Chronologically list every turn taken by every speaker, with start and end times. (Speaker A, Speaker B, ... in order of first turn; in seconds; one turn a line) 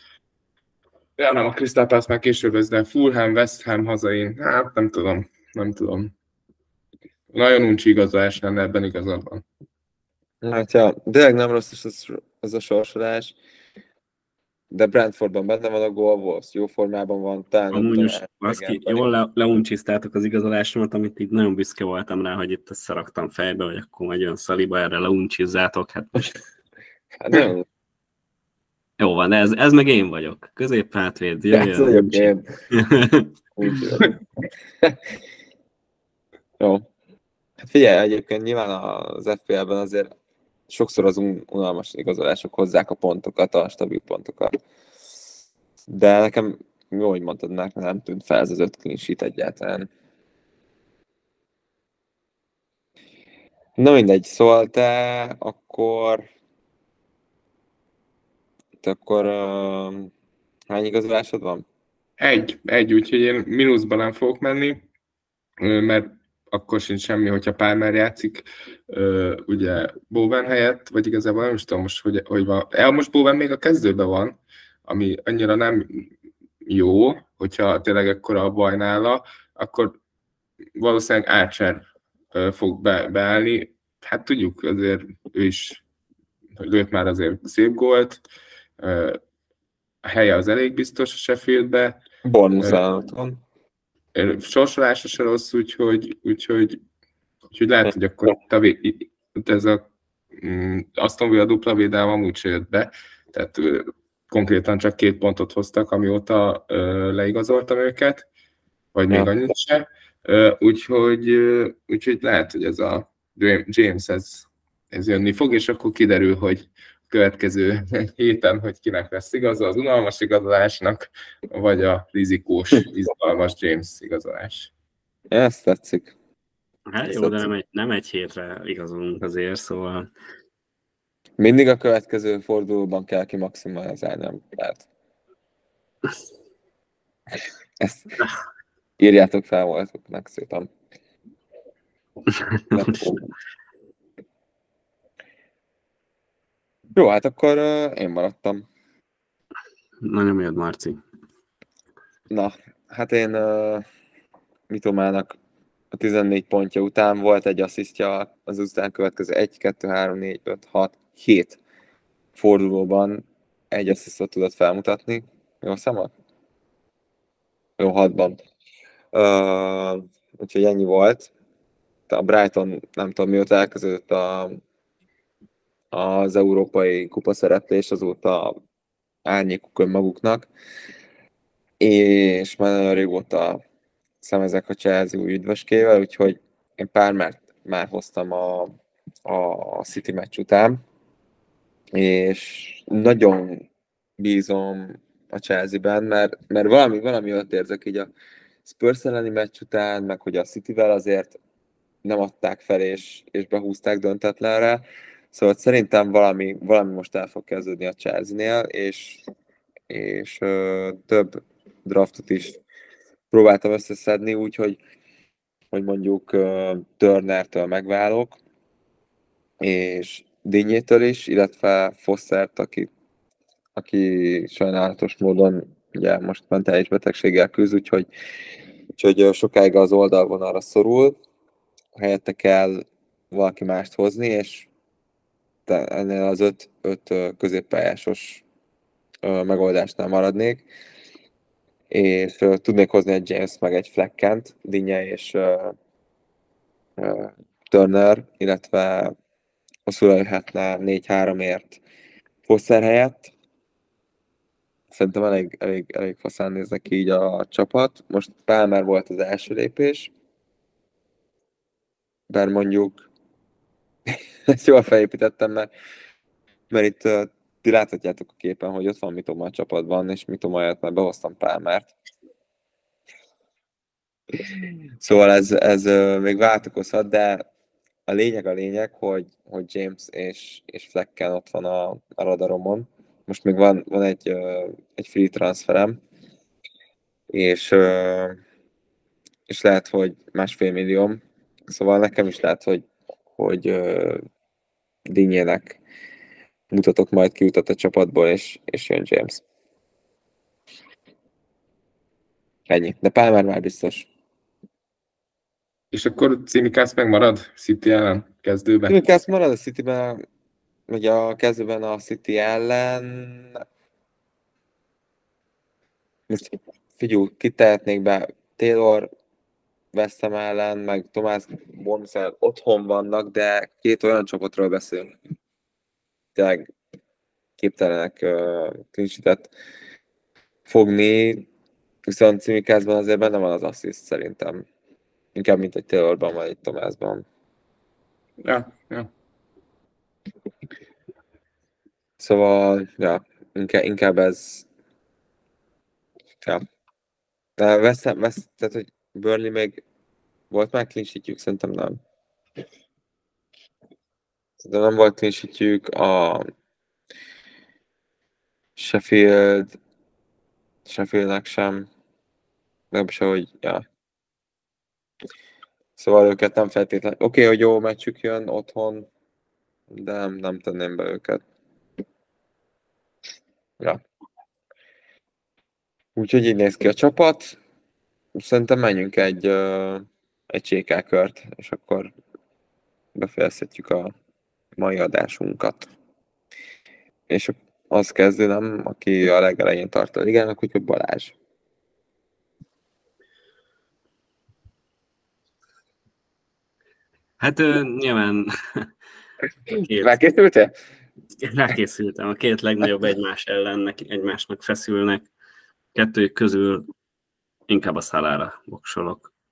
Speaker A: 1.2-6.1
Speaker A: 7.3-9.4
Speaker B: 10.4-13.3
Speaker B: 14.7-19.1
Speaker C: 17.7-26.4
Speaker B: 27.2-27.6
Speaker C: 29.0-33.3
Speaker B: 31.5-32.5
Speaker B: 33.5-34.1
Speaker B: 36.6-36.9
Speaker B: 37.6-40.1
Speaker B: 40.7-44.6
Speaker B: 45.9-49.9
Speaker B: 53.8-56.2
Speaker B: 58.8-60.1
Speaker B: 60.7-61.6
Speaker A: 62.2-64.8
Speaker A: 65.6-76.1
Speaker A: 76.7-79.9
Speaker A: 80.8-85.8
Speaker A: 86.6-88.2
Speaker A: 88.8-89.2
Speaker A: 90.0-92.0
Speaker B: 92.2-93.4
Speaker A: 94.1-96.8
Speaker A: 97.5-99.8
Speaker A: 100.4-108.3
Speaker A: 108.9-124.7
Speaker B: 125.3-126.1
Speaker C: 126.9-130.1
Speaker B: 127.0-127.5
Speaker B: 131.4-134.8
Speaker B: 137.8-138.1
Speaker B: 139.0-140.7
Speaker C: 142.3-142.6
Speaker B: 142.7-143.2
Speaker B: 146.9-148.6
Speaker C: 150.0-151.0
Speaker B: 152.3-153.8
Speaker B: 154.7-155.4
Speaker B: 155.9-161.6
Speaker B: 162.3-166.1
Speaker B: 167.8-168.4
Speaker B: 169.1-171.3
Speaker B: 172.1-174.6
Speaker B: 175.9-178.6
Speaker B: 179.2-180.5
Speaker B: 181.8-183.6
Speaker B: 184.2-190.8
Speaker B: 191.9-193.7
Speaker B: 194.2-198.1
Speaker B: 198.6-201.4
Speaker B: 202.0-209.2
Speaker B: 209.9-212.6
Speaker B: 213.3-214.8
Speaker B: 215.7-218.4
Speaker B: 219.6-222.9
Speaker B: 223.8-228.1
Speaker B: 229.0-231.2
Speaker B: 231.9-234.7
Speaker B: 235.7-238.4
Speaker B: 239.2-240.6
Speaker B: 241.9-245.8
Speaker B: 247.0-249.1
Speaker B: 249.8-251.8
Speaker B: 252.4-253.3
Speaker B: 254.9-260.1
Speaker B: 262.3-263.1
Speaker B: 264.5-265.7
Speaker B: 266.7-271.9
Speaker B: 274.4-277.5
Speaker B: 278.1-286.0
Speaker B: 287.3-288.4
Speaker B: 289.5-292.8
Speaker B: 293.4-294.2
Speaker B: 295.1-295.8
Speaker B: 296.7-299.4
Speaker B: 302.7-304.1
Speaker A: 305.9-309.0
Speaker B: 308.9-310.2
Speaker B: 310.9-313.6
Speaker B: 316.3-319.1
Speaker B: 319.9-325.1
Speaker B: 326.4-326.7
Speaker B: 327.6-329.5
Speaker B: 330.7-331.4
Speaker B: 332.1-334.6
Speaker B: 335.3-337.2
Speaker A: 338.4-339.1
Speaker B: 342.2-344.6
Speaker B: 347.6-349.8
Speaker B: 350.5-352.0
Speaker B: 354.6-356.5
Speaker B: 358.8-359.7
Speaker B: 360.9-361.9
Speaker B: 362.9-363.8
Speaker B: 366.0-369.1
Speaker B: 369.9-371.4
Speaker B: 376.1-377.6
Speaker B: 378.4-382.1
Speaker B: 383.1-384.1
Speaker B: 384.8-385.9
Speaker B: 387.3-391.3
Speaker C: 397.4-398.9
Speaker B: 399.7-400.7
Speaker C: 399.9-400.1
Speaker C: 401.4-405.3
Speaker C: 405.9-406.9
Speaker C: 407.7-409.3